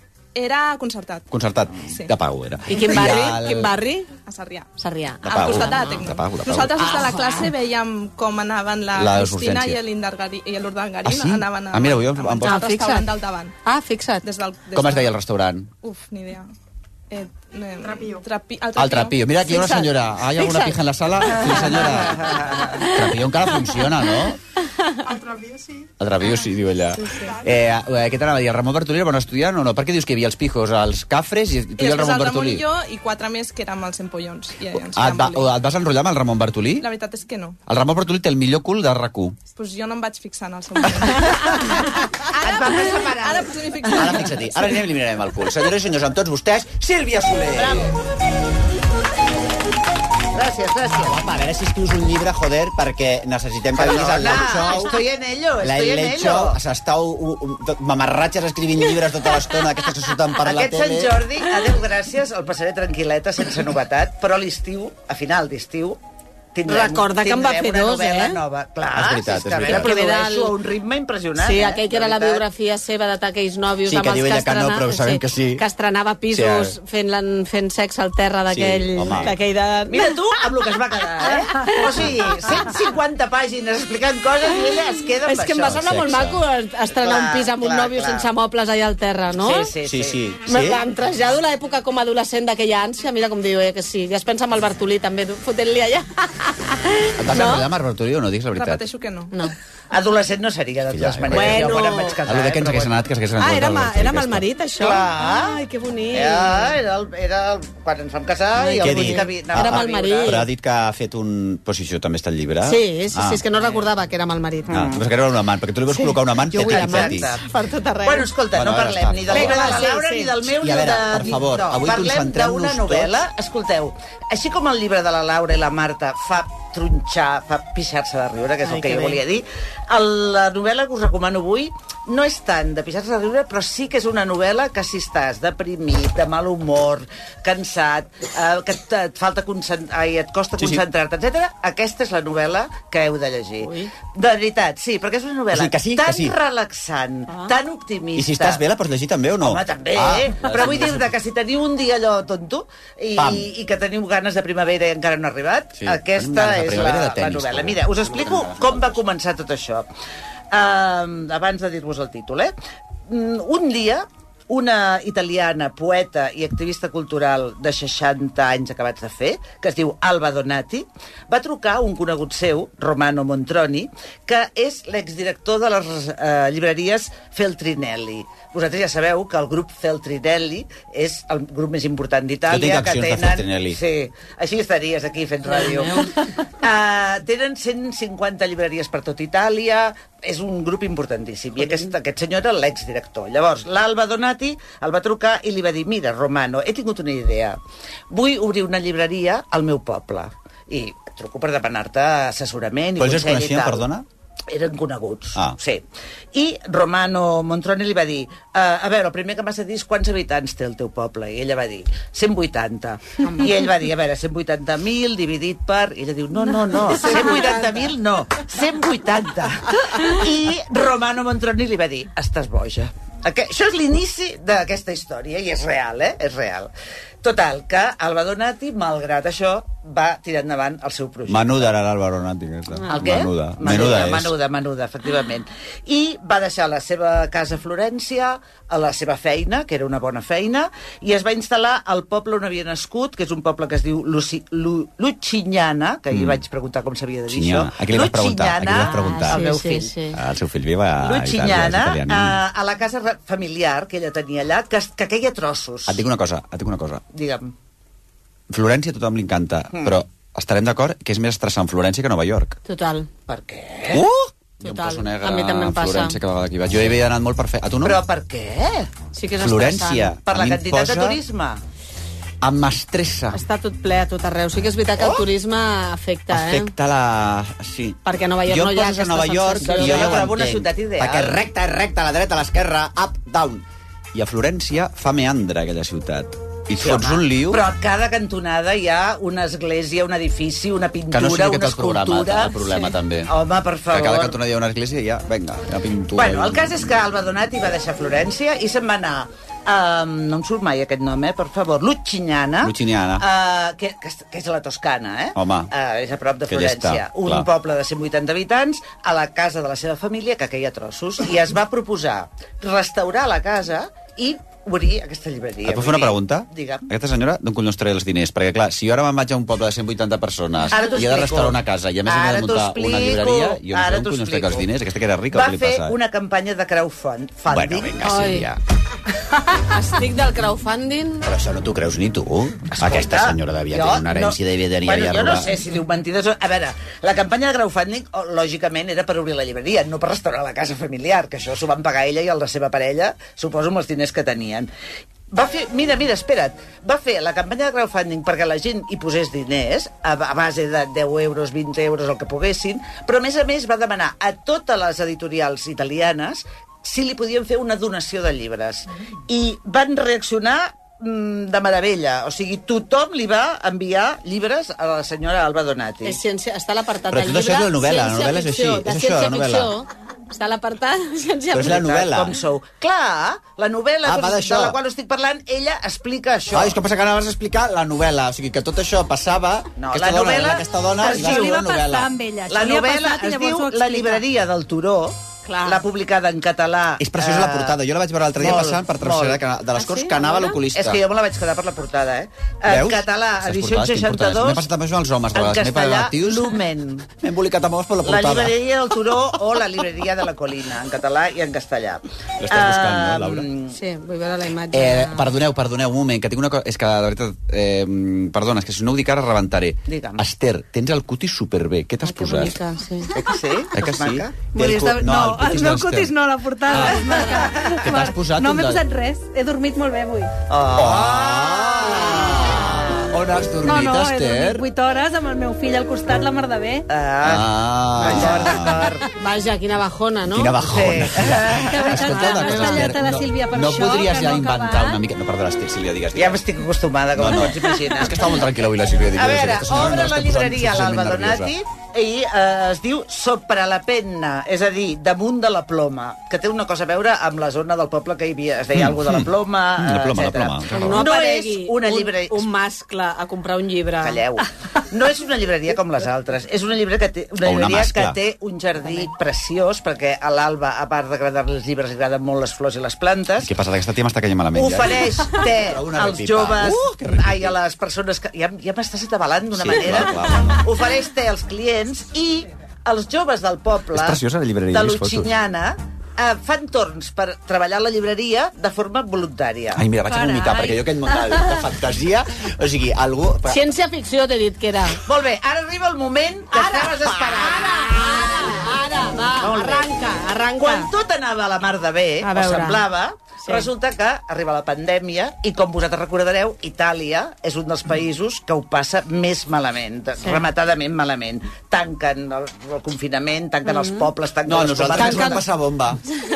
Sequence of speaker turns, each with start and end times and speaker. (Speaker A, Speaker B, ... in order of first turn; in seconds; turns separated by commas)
Speaker A: 0.3-1.3, Speaker B: 1.3-3.8, Speaker A: 1.9-2.1, Speaker C: 2.7-4.1, Speaker A: 2.9-3.2, Speaker A: 4.1-4.7, Speaker C: 4.8-6.0, Speaker B: 5.2-7.0, Speaker A: 5.3-13.5, Speaker C: 6.8-7.5, Speaker B: 8.9-9.8, Speaker B: 11.0-12.7, Speaker C: 12.4-13.1, Speaker C: 13.6-14.3, Speaker A: 14.2-15.1, Speaker B: 14.7-15.7, Speaker A: 15.8-16.5, Speaker A: 17.1-19.4, Speaker B: 18.8-24.4, Speaker C: 19.5-20.8, Speaker D: 22.3-22.5, Speaker C: 22.7-22.9, Speaker B: 26.0-32.6, Speaker A: 27.0-27.4, Speaker A: 31.8-35.5, Speaker B: 34.8-36.9, Speaker A: 36.8-37.6, Speaker B: 37.7-39.4, Speaker A: 39.5-44.5, Speaker D: 42.4-43.5, Speaker B: 43.9-47.9, Speaker D: 47.5-47.9, Speaker D: 50.3-51.2, Speaker B: 51.0-55.0, Speaker D: 53.7-56.6, Speaker B: 55.6-61.2, Speaker D: 60.4-66.0, Speaker D: 66.5-72.5, Speaker C: 66.7-68.4, Speaker B: 68.9-69.9, Speaker C: 69.6-70.5, Speaker C: 71.4-80.2, Speaker B: 73.9-75.6, Speaker B: 76.3-76.8, Speaker B: 78.5-79.3, Speaker D: 79.9-85.8, Speaker C: 81.3-81.7, Speaker C: 85.2-89.7, Speaker B: 85.6-86.4, Speaker D: 86.9-88.3, Speaker D: 89.4-90.2, Speaker B: 89.8-90.8, Speaker C: 90.5-97.7, Speaker B: 97.2-98.8, Speaker A: 98.5-99.3, Speaker D: 99.9-103.0, Speaker B: 100.9-104.5, Speaker C: 101.3-102.2, Speaker C: 103.4-106.7, Speaker D: 104.8-105.6, Speaker D: 106.1-110.5, Speaker C: 108.6-110.5, Speaker B: 108.8-113.4, Speaker C: 112.6-114.8, Speaker D: 113.6-113.8, Speaker D: 114.7-115.0, Speaker B: 114.7-117.3, Speaker C: 115.9-118.3, Speaker D: 116.5-117.5, Speaker D: 118.0-148.6, Speaker B: 118.5-119.9, Speaker C: 119.3-120.3, Speaker B: 120.5-123.1, Speaker C: 128.6-129.2, Speaker C: 143.6-143.9, Speaker B: 145.5-146.3, Speaker C: 147.3-147.5, Speaker B: 148.2-151.1, Speaker D: 149.4-159.9, Speaker B: 153.2-153.5, Speaker B: 155.8-159.0, Speaker D: 160.5-162.5, Speaker D: 163.1-197.6, Speaker B: 182.5-183.8, Speaker C: 185.5-186.1, Speaker C: 191.6-191.9, Speaker D: 198.1-203.9, Speaker B: 203.0-204.1, Speaker D: 204.5-226.7, Speaker C: 213.2-213.5, Speaker C: 216.9-217.8, Speaker D: 227.2-231.7, Speaker B: 231.3-234.3, Speaker D: 232.9-250.0, Speaker B: 246.1-246.4, Speaker B: 247.3-249.4, Speaker C: 248.8-250.2, Speaker B: 250.1-252.4, Speaker D: 251.0-256.1, Speaker B: 255.9-257.0, Speaker D: 257.1-257.5, Speaker B: 258.5-262.6, Speaker D: 259.7-260.0, Speaker C: 262.7-263.1, Speaker D: 263.3-264.1, Speaker B: 263.9-268.0, Speaker C: 264.6-266.2, Speaker D: 267.8-268.9, Speaker C: 269.1-270.2, Speaker B: 269.4-271.2, Speaker D: 270.3-271.6, Speaker B: 272.4-273.4, Speaker C: 273.3-276.7, Speaker D: 275.0-275.2, Speaker B: 276.3-287.6, Speaker C: 278.1-280.3, Speaker D: 279.6-281.4, Speaker D: 286.8-292.7, Speaker B: 291.1-293.3, Speaker D: 293.3-294.4, Speaker B: 293.9-297.0, Speaker D: 296.1-316.9, Speaker B: 302.6-303.2, Speaker B: 305.4-305.7, Speaker B: 306.5-307.4, Speaker B: 315.7-325.9, Speaker D: 320.7-324.7, Speaker D: 325.3-328.0, Speaker B: 327.5-328.6, Speaker C: 328.0-328.5, Speaker C: 329.6-331.2, Speaker B: 331.2-335.6, Speaker D: 332.7-344.7, Speaker D: 345.3-366.2, Speaker C: 366.0-371.9, Speaker B: 367.1-369.7, Speaker B: 371.5-372.4, Speaker D: 371.6-376.8, Speaker B: 374.1-374.8, Speaker B: 376.5-382.1, Speaker D: 379.8-381.6, Speaker E: 381.0-384.2, Speaker D: 382.5-387.8, Speaker C: 385.5-385.8, Speaker B: 387.0-391.0, Speaker D: 388.4-389.4, Speaker C: 389.8-390.6, Speaker D: 390.7-394.7, Speaker B: 392.7-396.5, Speaker D: 395.3-397.1, Speaker B: 397.2-398.5, Speaker D: 398.0-403.8, Speaker B: 402.4-403.4, Speaker C: 403.7-405.3, Speaker B: 404.7-412.6, Speaker D: 409.9-410.3, Speaker C: 412.1-413.1, Speaker D: 413.1-414.6, Speaker B: 413.7-416.1, Speaker E: 414.5-420.3, Speaker B: 416.7-418.8, Speaker D: 416.9-417.7, Speaker D: 420.5-423.0, Speaker B: 420.8-424.7, Speaker C: 422.3-422.6, Speaker E: 423.6-426.8, Speaker D: 426.9-429.0, Speaker B: 427.2-428.9, Speaker C: 428.0-430.6, Speaker B: 430.3-436.4, Speaker D: 430.6-432.8, Speaker E: 431.6-435.0, Speaker C: 432.5-432.9, Speaker D: 436.1-438.5, Speaker B: 437.2-441.5, Speaker D: 439.1-452.5, Speaker B: 448.7-451.1, Speaker C: 450.7-454.2, Speaker D: 454.0-463.5, Speaker B: 457.4-458.2, Speaker B: 463.4-467.6, Speaker D: 464.5-479.9, Speaker B: 469.5-470.6, Speaker B: 473.9-475.3, Speaker B: 479.8-483.7, Speaker E: 480.1-481.6, Speaker C: 483.5-485.0, Speaker D: 485.0-488.6, Speaker C: 486.5-490.9, Speaker D: 489.4-489.9, Speaker D: 490.5-505.4, Speaker C: 492.2-492.9, Speaker C: 493.4-493.7, Speaker C: 503.7-504.1, Speaker B: 504.5-506.0, Speaker C: 505.0-505.4